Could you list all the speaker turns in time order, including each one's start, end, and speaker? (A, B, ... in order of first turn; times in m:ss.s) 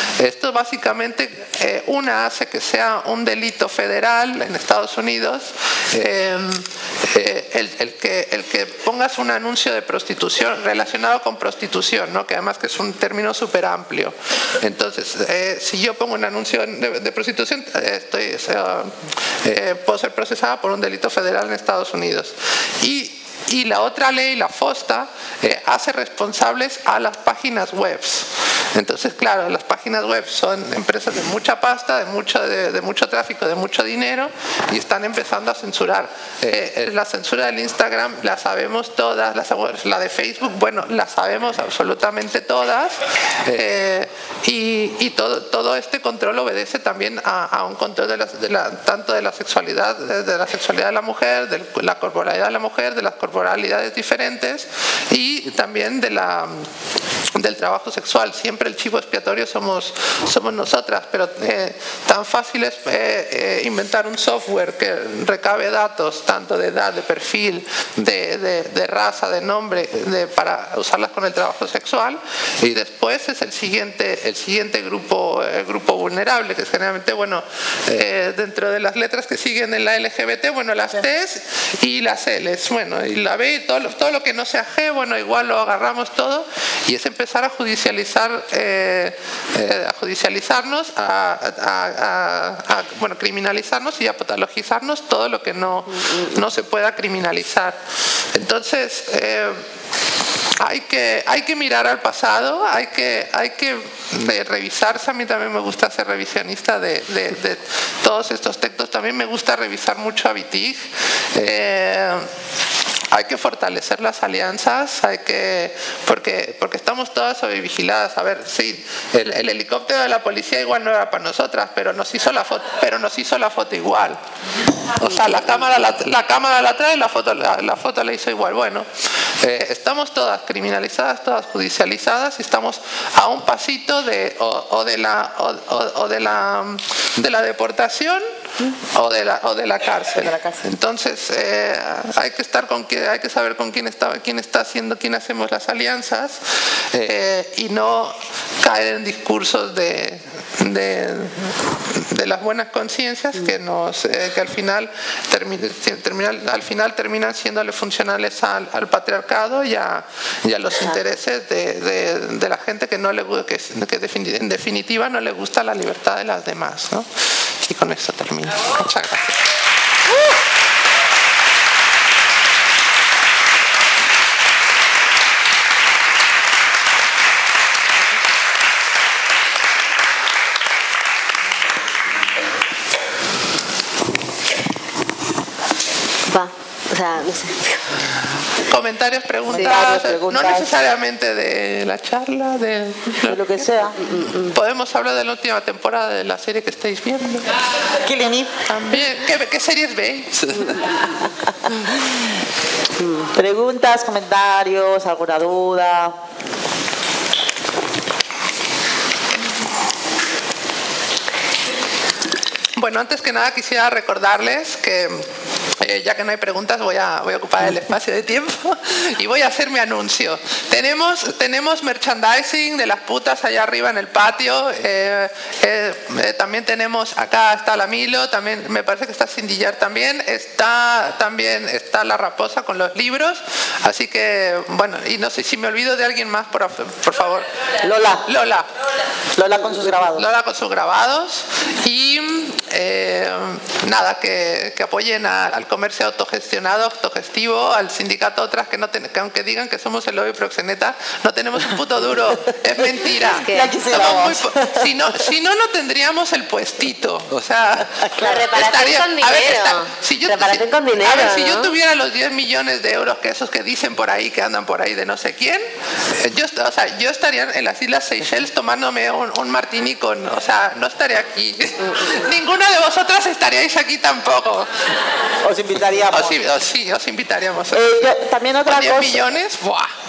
0:00.2-0:56.7 A
0:57.3-1:37.8 A
1:38.3-1:39.6 A
1:40.6-1:52.3 A
1:53.1-2:04.2 A
2:05.0-2:08.9 A
2:09.4-2:18.2 A
2:19.0-2:26.4 A
2:20.2-2:20.6 B
2:26.9-2:49.4 A
3:06.3-3:07.8 C
3:08.7-3:13.9 A
3:09.4-3:10.7 B
3:13.2-3:14.0 B
3:14.0-3:14.6 C
3:14.5-3:17.6 A
3:18.0-3:18.6 B
3:18.7-3:21.0 A
3:23.3-3:26.2 B
3:32.8-3:35.3 A
3:35.8-3:58.7 A
3:57.8-3:58.2 B
3:59.4-4:00.3 B
3:59.7-4:34.9 A
4:12.8-4:14.9 B
4:13.2-4:13.8 C
4:18.2-4:21.7 C
4:35.4-4:36.3 B
4:36.1-4:37.8 A
4:37.7-4:39.2 B
4:38.7-4:39.9 A